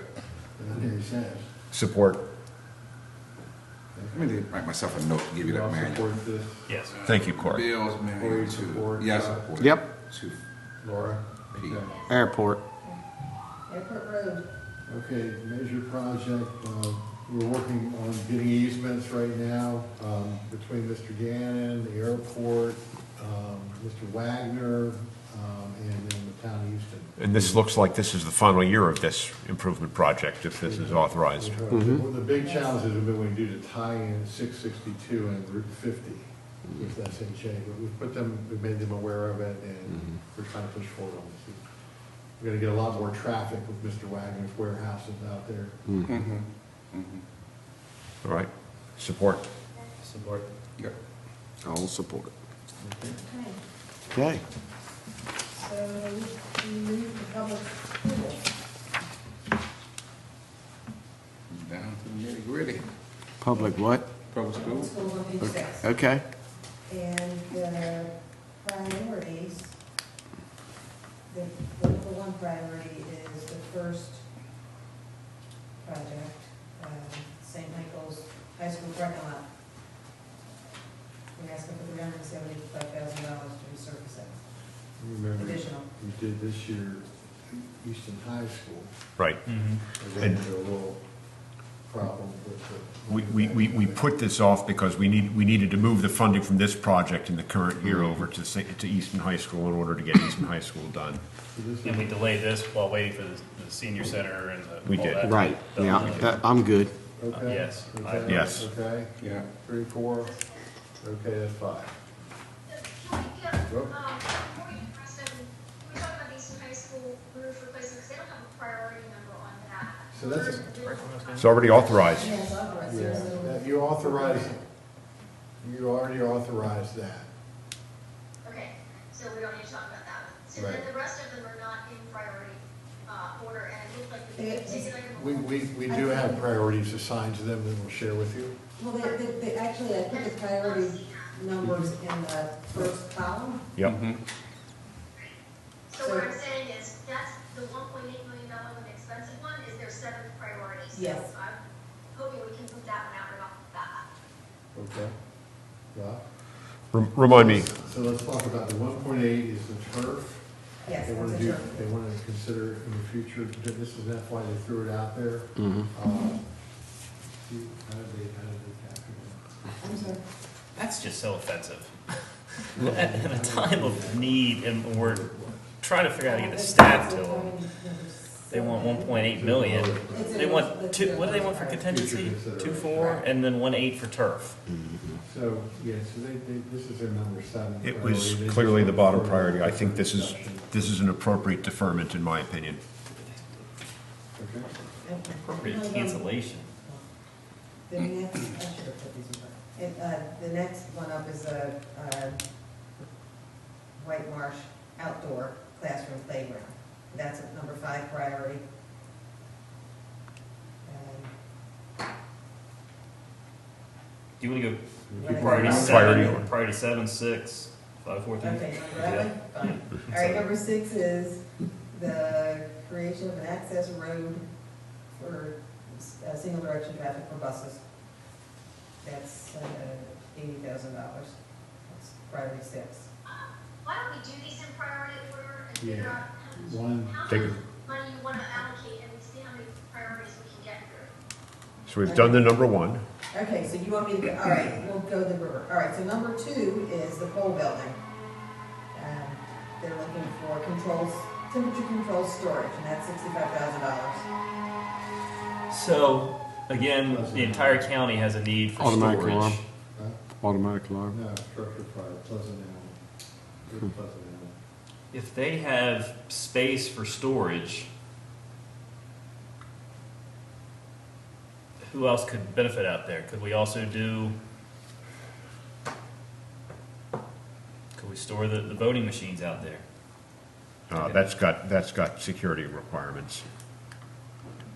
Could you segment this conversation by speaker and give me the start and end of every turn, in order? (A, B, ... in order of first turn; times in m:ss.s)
0:00.6-0:01.5 A
0:01.7-0:02.2 B
0:03.9-0:04.2 A
0:04.1-0:06.1 C
0:05.4-0:06.8 A
0:06.7-0:06.9 D
0:06.9-0:10.4 C
0:07.0-0:07.7 B
0:08.1-0:09.6 A
0:10.8-0:12.1 A
0:11.5-0:11.9 C
0:12.1-0:12.6 E
0:13.7-0:14.4 F
0:14.8-0:27.6 A
0:27.2-0:31.6 B
0:30.6-0:41.6 A
0:31.7-0:32.0 E
0:32.4-0:32.8 F
0:42.4-0:46.0 A
0:46.1-0:47.2 C
0:48.2-0:49.4 B
0:50.0-0:50.4 D
0:51.6-0:52.3 E
0:53.2-0:53.6 F
0:54.1-0:54.4 E
0:55.5-0:58.4 F
1:01.5-1:02.8 C
1:03.4-1:04.1 E
1:04.3-1:04.9 C
1:04.5-1:05.9 F
1:05.8-1:06.2 E
1:06.9-1:09.8 F
1:11.3-1:14.2 F
1:15.8-1:19.4 F
1:21.4-1:24.4 F
1:25.0-1:28.9 A
1:25.4-1:25.8 F
1:29.4-1:29.8 D
1:29.9-1:31.0 A
1:31.9-1:34.0 A
1:33.1-1:41.2 B
1:41.5-1:42.3 A
1:41.8-1:46.4 D
1:44.8-1:45.3 B
1:45.2-1:46.9 E
1:47.2-1:50.3 A
1:47.3-1:48.6 D
1:48.2-1:48.7 B
1:49.2-1:49.5 C
1:50.2-1:50.6 G
1:51.0-1:51.9 A
1:52.7-2:02.6 G
1:53.7-1:53.9 A
2:00.1-2:00.7 A
2:00.8-2:01.5 D
2:01.4-2:02.4 B
2:02.1-2:04.6 F
2:02.8-2:04.6 A
2:05.6-2:07.3 A
2:08.4-2:15.6 G
2:10.5-2:10.9 A
2:14.4-2:14.9 F
2:15.1-2:18.6 A
2:15.9-2:16.4 F
2:18.8-2:23.7 F
2:20.1-2:21.3 G
2:23.8-2:24.2 C
2:25.9-2:31.6 G
2:26.0-2:26.3 F
2:30.9-2:31.3 F
2:32.1-2:34.0 G
2:34.7-2:35.1 A
2:35.9-2:36.2 A
2:36.9-2:37.7 B
2:37.3-2:46.4 A
2:40.8-2:41.9 F
2:47.4-2:50.2 A
2:49.8-2:50.2 F
2:50.8-2:55.2 D
2:52.7-2:55.7 A
2:55.8-2:57.6 D
2:56.2-2:59.3 F
2:58.5-3:04.6 D
2:59.2-3:00.4 A
3:00.1-3:01.8 F
3:01.8-3:03.3 A
3:05.2-3:10.8 A
3:07.8-3:12.8 B
3:14.4-3:14.7 A
3:15.0-3:17.0 F
3:15.4-3:16.7 D
3:17.9-3:22.4 F
3:24.0-3:28.6 F
3:30.8-3:31.3 F
3:34.4-3:40.4 D
3:35.1-3:36.0 A
3:35.2-3:36.4 F
3:35.8-3:36.5 B
3:38.4-3:44.4 F
3:45.1-3:47.8 F
3:49.0-3:53.1 F
3:53.2-4:01.1 G
3:55.8-3:57.6 A
3:57.3-3:57.5 B
4:01.8-4:03.0 B
4:02.0-4:02.6 F
4:03.3-4:08.0 F
4:08.9-4:14.3 F
4:15.7-4:19.6 D
4:16.8-4:17.9 A
4:18.8-4:19.6 E
4:19.9-4:20.2 A
4:20.4-4:21.1 E
4:21.1-4:23.0 A
4:23.6-4:24.5 A
4:25.1-4:27.9 D
4:31.8-4:34.4 D
4:37.9-4:39.8 D
4:40.9-4:43.4 B
4:40.9-4:41.2 D